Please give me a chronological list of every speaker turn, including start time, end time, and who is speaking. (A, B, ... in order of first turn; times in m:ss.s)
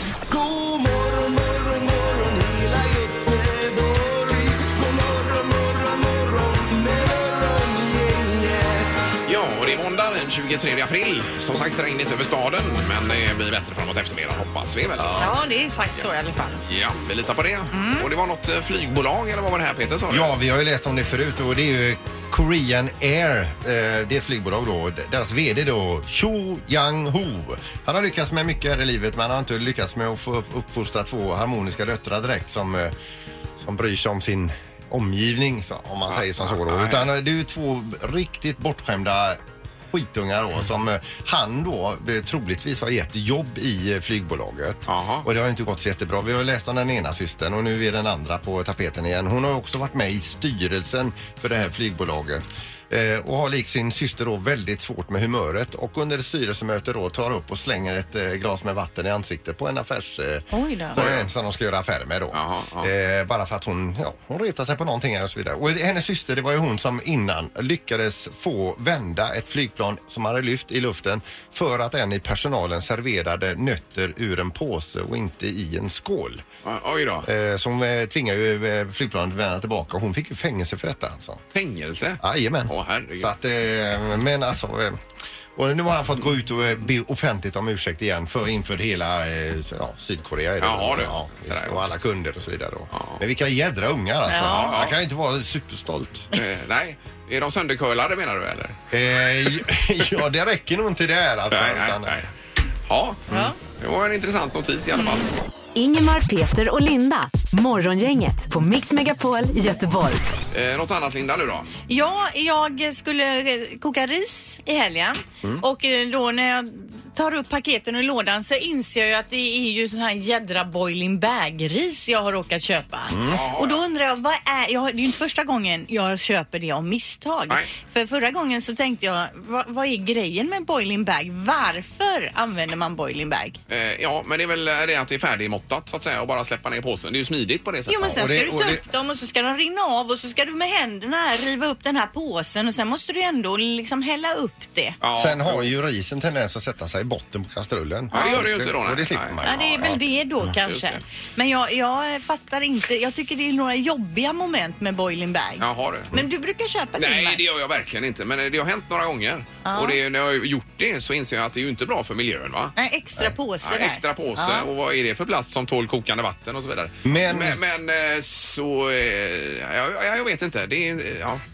0:00.3-0:09.1 A
0:09.3-0:15.4 B
0:15.0-0:15.3 C
0:15.2-0:16.6 D
0:16.6-0:20.3 B
0:17.7-0:18.1 D
0:20.1-0:32.9 C
0:33.6-1:16.4 C
0:36.1-0:37.1 B
0:44.9-0:45.3 B
1:00.6-1:01.0 D
1:01.0-1:01.2 B
1:02.3-1:02.9 B
1:16.6-1:17.3 B
1:17.2-1:21.4 C
1:21.5-1:23.3 B
1:22.2-1:25.0 C
1:25.6-1:36.3 C
1:30.6-1:31.8 B
1:32.9-1:33.2 B
1:34.3-1:34.8 D
1:34.4-1:35.0 B
1:36.3-1:38.8 B
1:38.9-1:42.2 C
1:41.5-1:42.3 B
1:42.9-1:45.3 B
1:43.3-1:43.6 D
1:45.0-1:45.3 D
1:45.8-1:50.3 E
1:50.5-1:51.7 B
1:51.9-2:13.6 D
2:03.1-2:03.4 C
2:03.2-2:03.8 B
2:13.7-2:18.2 B
2:17.9-2:25.0 D
2:18.0-2:18.8 C
2:25.0-2:25.7 B
2:25.1-2:30.0 C
2:28.1-2:29.8 B
2:29.4-2:37.4 D
2:30.6-2:31.0 B
2:35.6-2:36.1 B
2:37.0-2:42.8 B
2:39.6-2:40.0 D
2:42.8-2:44.7 D
2:43.6-2:51.4 B
2:47.0-2:47.6 C